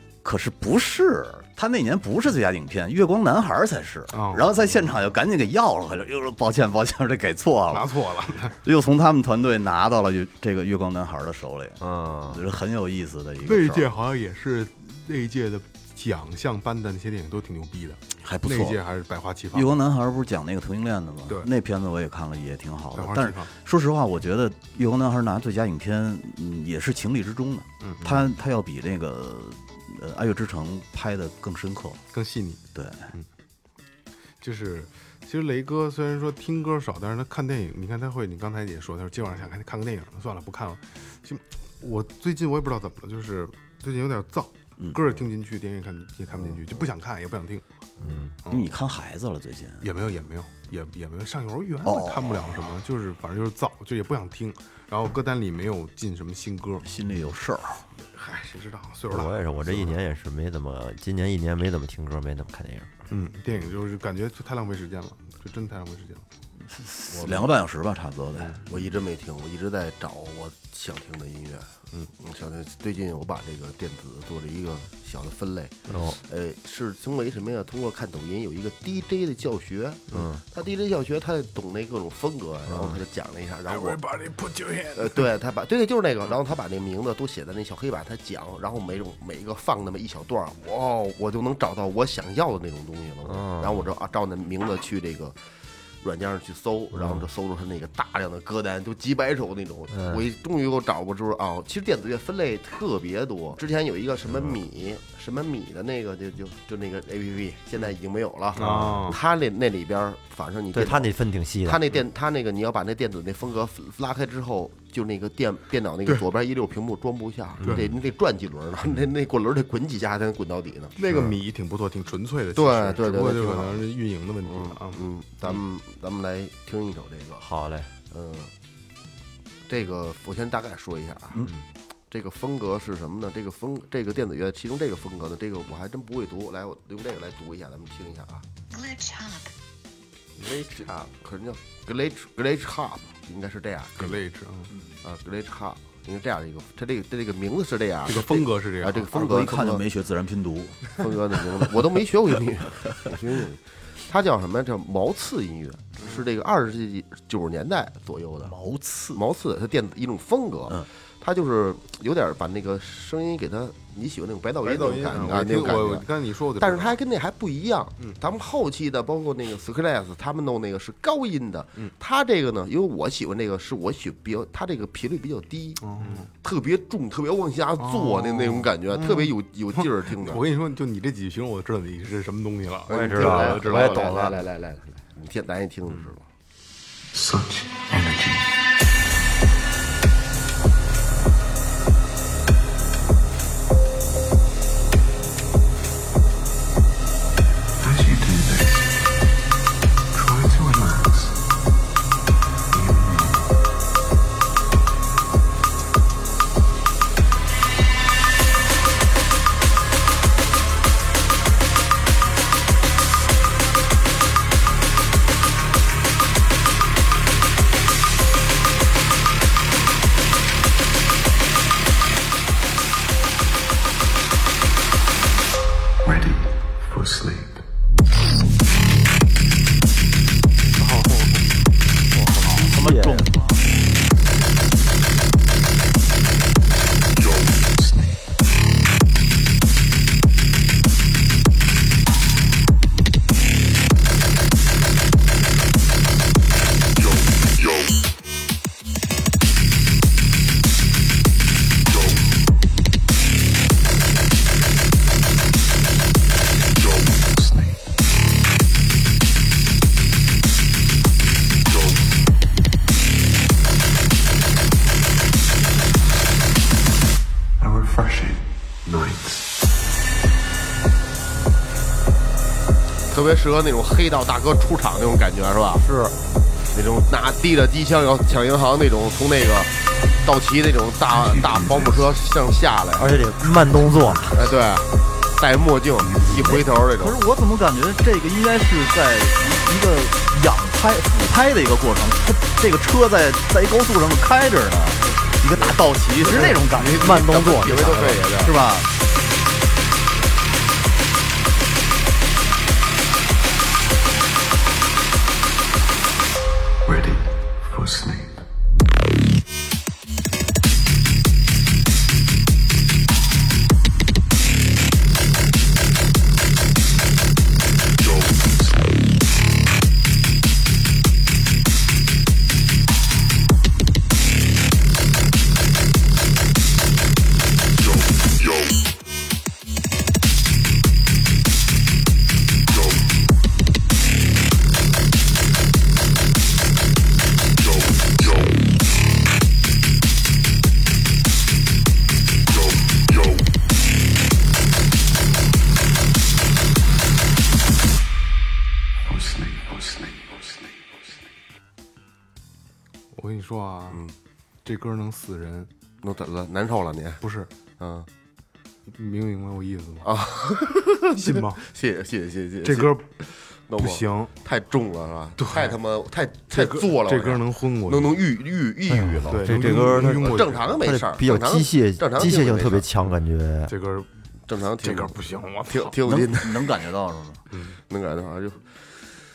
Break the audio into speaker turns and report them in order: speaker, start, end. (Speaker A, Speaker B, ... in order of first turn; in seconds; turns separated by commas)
Speaker A: 0.2-8.0, Speaker B: 4.1-4.6, Speaker B: 7.7-8.6, Speaker A: 8.5-13.9, Speaker C: 11.8-12.4, Speaker B: 13.4-19.7, Speaker A: 18.2-18.8, Speaker A: 19.5-32.0, Speaker B: 22.9-23.5, Speaker B: 27.8-28.3, Speaker B: 32.1-33.3, Speaker A: 32.7-33.1, Speaker B: 34.4-47.6, Speaker D: 48.0-48.4, Speaker B: 48.4-48.8, Speaker A: 48.5-49.9, Speaker B: 49.8-56.9, Speaker A: 51.8-52.8, Speaker A: 56.8-57.8, Speaker B: 58.1-60.0, Speaker D: 59.1-62.9, Speaker B: 63.1-66.3, Speaker A: 66.6-68.6, Speaker C: 67.2-67.5, Speaker C: 68.6-84.1, Speaker D: 75.9-76.2, Speaker D: 80.1-80.4, Speaker D: 82.7-83.0, Speaker C: 84.9-95.4, Speaker D: 93.3-93.9, Speaker C: 96.0-111.1, Speaker D: 96.9-97.2, Speaker D: 99.9-100.2, Speaker B: 108.6-109.2, Speaker D: 108.6-109.0, Speaker D: 110.7-111.8, Speaker C: 111.7-121.0, Speaker B: 117.6-118.0, Speaker B: 121.0-125.1, Speaker C: 122.5-123.9, Speaker C: 124.4-127.5, Speaker D: 127.4-127.9, Speaker C: 128.1-128.5, Speaker C: 129.7-131.5, Speaker C: 132.1-138.4, Speaker C: 140.4-144.2, Speaker B: 144.0-144.7, Speaker C: 145.0-149.8, Speaker B: 148.1-149.2, Speaker A: 149.1-150.9, Speaker C: 151.0-158.6, Speaker B: 156.0-156.2, Speaker A: 158.4-159.2, Speaker C: 159.1-166.1, Speaker B: 164.6-167.0, Speaker C: 166.6-175.9, Speaker B: 175.8-176.3, Speaker C: 176.4-180.4, Speaker B: 177.8-184.3, Speaker C: 182.9-186.2, Speaker D: 182.9-184.4, Speaker E: 187.1-188.5, Speaker E: 197.8-198.9, Speaker E: 200.1-201.4, Speaker E: 202.7-203.5, Speaker E: 226.0-227.6, Speaker B: 230.8-231.5, Speaker D: 232.2-233.3, Speaker A: 232.3-233.7, Speaker E: 237.4-238.2, Speaker E: 256.9-257.8, Speaker E: 267.6-269.4, Speaker C: 273.1-275.9, Speaker D: 275.8-276.1, Speaker C: 276.7-283.2, Speaker E: 281.1-282.1, Speaker D: 283.0-284.5, Speaker C: 284.3-287.2, Speaker E: 286.0-286.4, Speaker A: 287.0-298.9, Speaker C: 295.0-298.6, Speaker D: 297.0-298.2, Speaker E: 306.9-308.4, Speaker E: 349.1-351.1, Speaker B: 353.1-354.0, Speaker B: 354.6-355.7, Speaker C: 356.0-357.2, Speaker B: 357.2-357.5, Speaker C: 357.8-358.1, Speaker B: 358.9-360.1, Speaker C: 360.0-363.0, Speaker B: 361.2-361.6, Speaker B: 362.6-363.2, Speaker C: 363.7-372.9, Speaker B: 363.8-364.3, Speaker B: 365.4-365.8, Speaker B: 366.5-368.2, Speaker D: 368.9-373.7, Speaker B: 369.3-370.8, Speaker B: 373.7-374.1, Speaker C: 374.5-375.2, Speaker B: 374.8-376.0, Speaker C: 375.7-376.8, Speaker A: 376.0-377.4, Speaker B: 377.5-377.8, Speaker C: 377.8-378.8